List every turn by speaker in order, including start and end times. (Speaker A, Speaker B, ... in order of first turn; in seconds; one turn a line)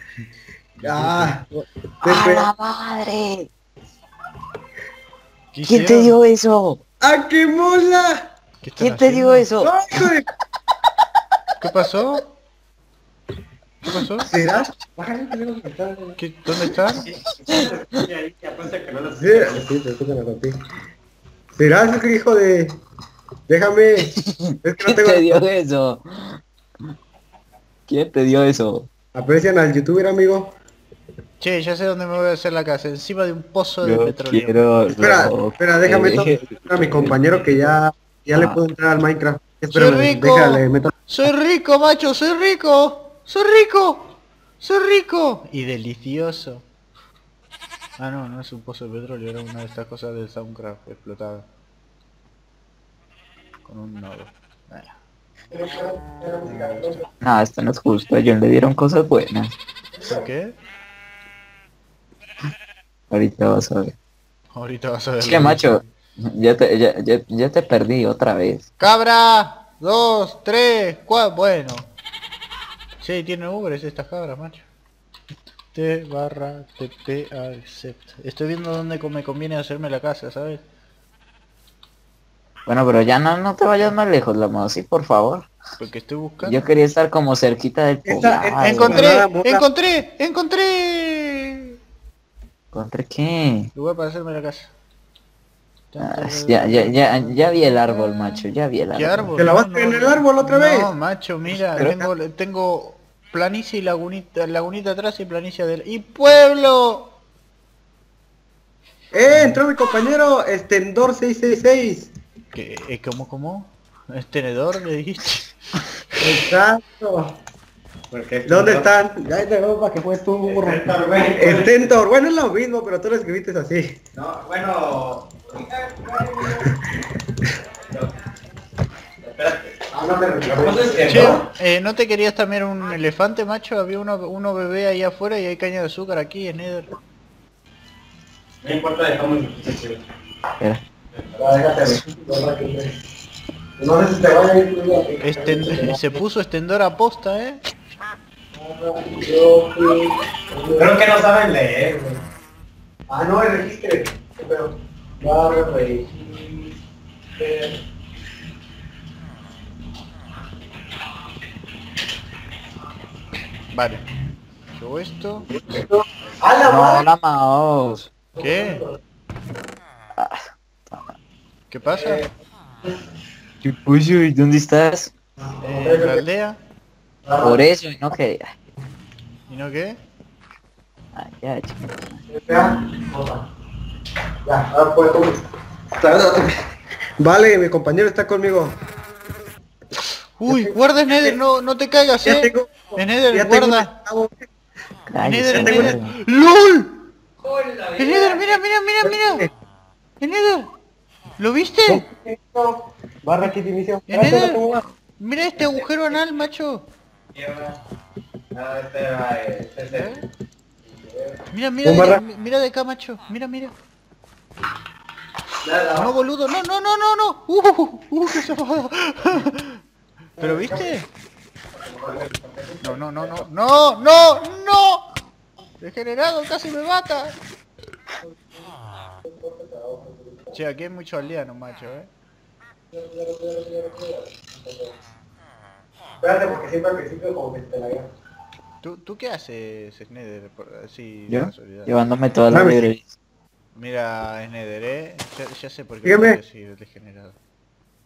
Speaker A: 0.8-1.3
Speaker B: 0.8-2.5
Speaker C: 2.0-3.5
Speaker A: 5.5-6.1
Speaker C: 5.7-6.8
Speaker B: 7.0-8.2
Speaker A: 8.6-9.5
Speaker C: 8.8-10.1
Speaker B: 9.6-10.3
Speaker A: 11.6-12.2
Speaker A: 13.8-14.3
Speaker B: 14.2-16.2
Speaker A: 16.2-17.1
Speaker D: 17.3-19.6
Speaker C: 17.5-17.8
Speaker B: 19.1-20.6
Speaker B: 21.6-22.8
Speaker B: 23.5-25.4
Speaker C: 24.1-26.4
Speaker C: 27.9-28.9
Speaker B: 29.1-30.6
Speaker A: 31.4-34.5
Speaker C: 33.8-37.2
Speaker B: 35.0-40.9
Speaker A: 39.7-46.6
Speaker A: 48.0-51.5
Speaker A: 53.6-55.0
Speaker B: 55.5-57.0
Speaker A: 56.4-57.0
Speaker C: 57.2-59.5
Speaker A: 60.0-60.5
Speaker C: 63.1-63.9
Speaker A: 64.5-65.8
Speaker C: 65.2-68.7
Speaker A: 68.8-71.9
Speaker A: 73.0-74.6
Speaker A: 75.7-80.6
Speaker C: 82.7-85.5
Speaker A: 85.8-86.7
Speaker C: 86.4-89.1
Speaker B: 88.0-89.6
Speaker A: 88.6-91.7
Speaker C: 92.7-93.7
Speaker A: 93.7-94.7
Speaker A: 95.9-107.1
Speaker C: 96.0-99.3
Speaker B: 99.4-100.9
Speaker B: 101.8-102.0
Speaker B: 109.1-112.1
Speaker A: 109.3-109.6
Speaker A: 112.5-115.8
Speaker B: 116.2-117.3
Speaker D: 118.1-118.9
Speaker B: 118.5-124.0
Speaker D: 120.4-121.9
Speaker D: 124.2-126.7
Speaker D: 129.2-129.8
Speaker B: 129.9-131.4
Speaker D: 130.6-131.5
Speaker A: 131.1-136.9
Speaker D: 138.6-140.0
Speaker D: 141.2-141.4
Speaker B: 141.4-143.0
Speaker B: 143.8-146.2
Speaker A: 145.2-147.6
Speaker B: 148.6-151.0
Speaker D: 150.7-152.0
Speaker B: 151.9-152.2
Speaker B: 153.1-156.7
Speaker B: 157.4-157.8
Speaker A: 163.7-164.0
Speaker A: 164.7-165.5
Speaker B: 165.7-167.1
Speaker C: 166.6-168.1
Speaker A: 168.4-168.8
Speaker B: 168.4-168.9
Speaker C: 170.2-171.2
Speaker A: 171.7-172.2
Speaker C: 173.6-175.1
Speaker A: 175.6-176.6
Speaker B: 175.7-176.2
Speaker B: 177.2-177.6
Speaker C: 177.4-178.5
Speaker A: 179.5-180.0
Speaker C: 181.1-182.2
Speaker B: 182.3-183.4
Speaker B: 184.4-185.4
Speaker B: 186.0-186.6
Speaker B: 187.2-188.8
Speaker A: 190.4-193.9
Speaker B: 190.5-191.4
Speaker B: 192.2-194.4
Speaker C: 195.1-196.1
Speaker A: 195.2-197.0
Speaker B: 195.5-195.9
Speaker D: 197.4-198.6
Speaker A: 198.0-199.4
Speaker B: 199.0-199.5
Speaker A: 200.2-200.7
Speaker A: 201.4-202.0
Speaker B: 201.9-204.8
Speaker A: 204.1-204.6
Speaker A: 205.2-206.8
Speaker D: 207.3-207.8
Speaker D: 208.5-210.2
Speaker A: 209.9-210.2
Speaker D: 211.0-211.3
Speaker A: 211.5-213.7
Speaker B: 211.8-212.2
Speaker D: 215.6-216.0
Speaker A: 215.9-219.8
Speaker A: 220.4-221.1
Speaker B: 220.4-220.8
Speaker A: 222.8-225.0
Speaker A: 225.8-227.3
Speaker B: 229.2-230.5
Speaker A: 230.5-232.1
Speaker B: 232.9-234.9
Speaker B: 236.2-238.1
Speaker A: 238.8-241.9
Speaker C: 241.3-243.1
Speaker B: 242.5-242.9
Speaker A: 243.7-247.3
Speaker B: 246.0-246.4